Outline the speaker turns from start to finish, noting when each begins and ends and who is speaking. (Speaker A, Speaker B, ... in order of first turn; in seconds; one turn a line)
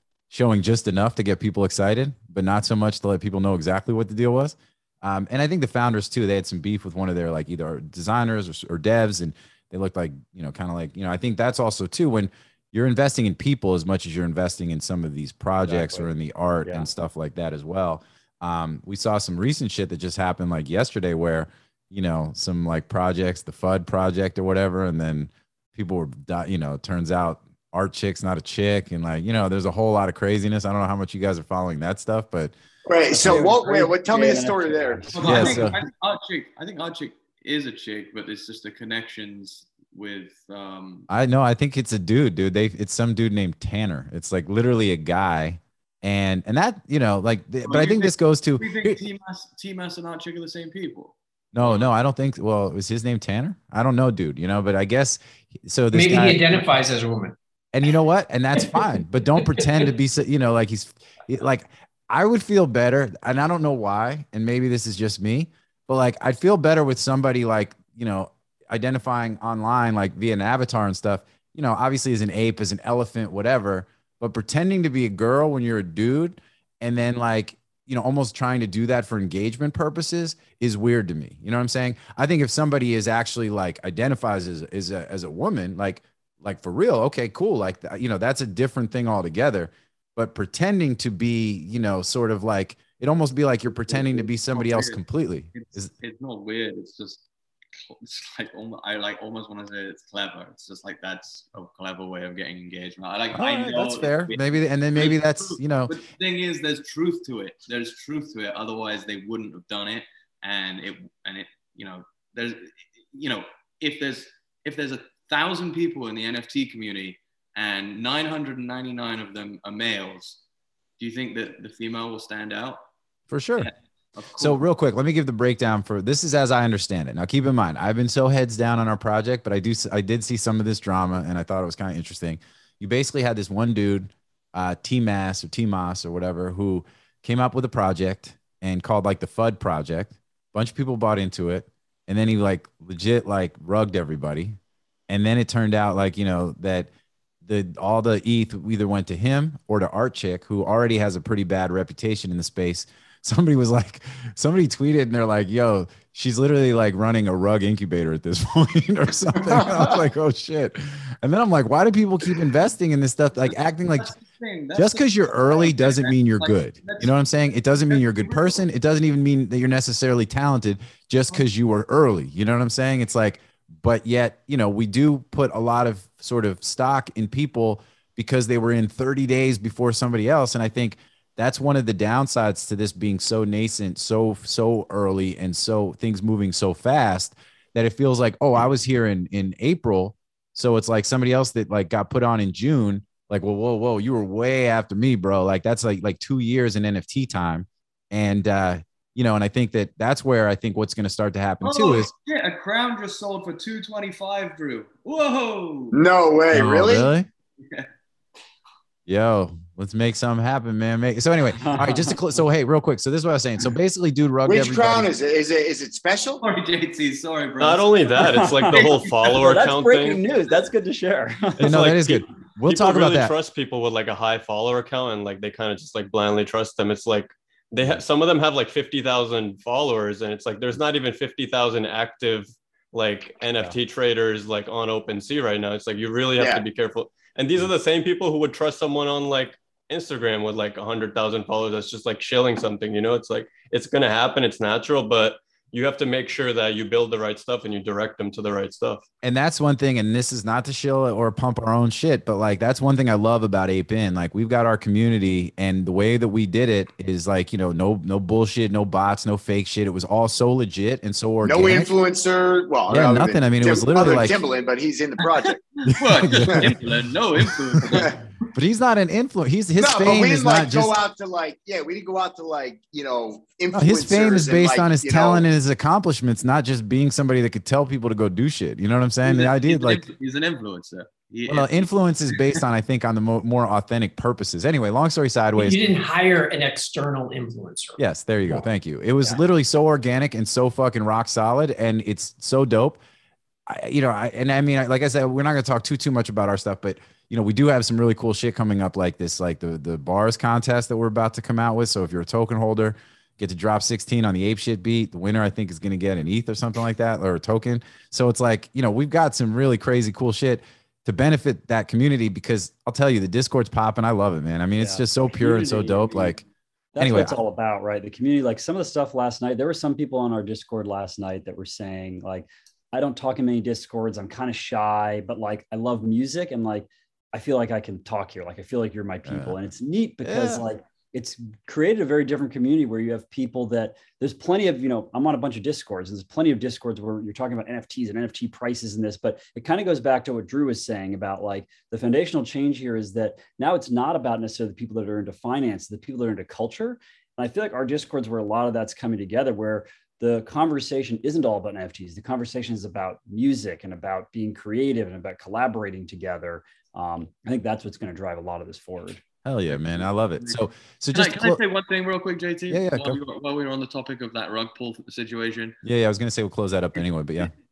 Speaker A: 0.3-32.5
Speaker B: 15.7-16.1
Speaker C: 32.9-35.6
Speaker B: 33.1-35.7
Speaker D: 35.1-41.1
Speaker A: 35.2-35.8
Speaker A: 41.1-49.0
Speaker D: 47.6-51.9
Speaker A: 51.5-56.8
Speaker E: 55.9-57.4
Speaker A: 57.7-95.9
Speaker D: 93.7-95.0
Speaker D: 95.5-97.2
Speaker D: 97.8-120.4
Speaker A: 103.3-105.9
Speaker D: 121.0-122.8
Speaker A: 123.3-123.7
Speaker D: 123.6-124.7
Speaker A: 124.4-144.6
Speaker A: 145.1-146.9
Speaker A: 147.4-164.1
Speaker D: 163.8-168.6
Speaker A: 164.8-202.1
Speaker D: 201.6-206.0
Speaker C: 205.9-207.1
Speaker A: 206.5-207.3
Speaker A: 209.1-215.1
Speaker B: 211.6-212.2
Speaker C: 214.5-216.4
Speaker D: 216.4-219.3
Speaker F: 217.6-220.2
Speaker B: 218.2-221.8
Speaker F: 221.6-249.1
Speaker A: 221.6-223.3
Speaker C: 236.4-236.6
Speaker A: 249.2-261.9
Speaker C: 261.4-265.6
Speaker A: 262.9-264.4
Speaker D: 265.9-268.2
Speaker A: 265.9-266.8
Speaker A: 267.5-268.0
Speaker A: 268.5-271.0
Speaker C: 269.8-275.5
Speaker A: 273.7-280.1
Speaker D: 279.2-282.6
Speaker A: 281.5-285.9
Speaker E: 285.6-288.0
Speaker A: 288.0-293.0
Speaker A: 293.7-316.4
Speaker B: 314.8-316.4
Speaker B: 316.9-359.2
Speaker A: 317.0-317.4
Speaker A: 329.3-329.6
Speaker A: 330.2-330.6
Speaker A: 359.4-361.6
Speaker D: 359.7-365.8
Speaker A: 362.7-363.2
Speaker A: 365.8-367.5
Speaker D: 367.0-367.5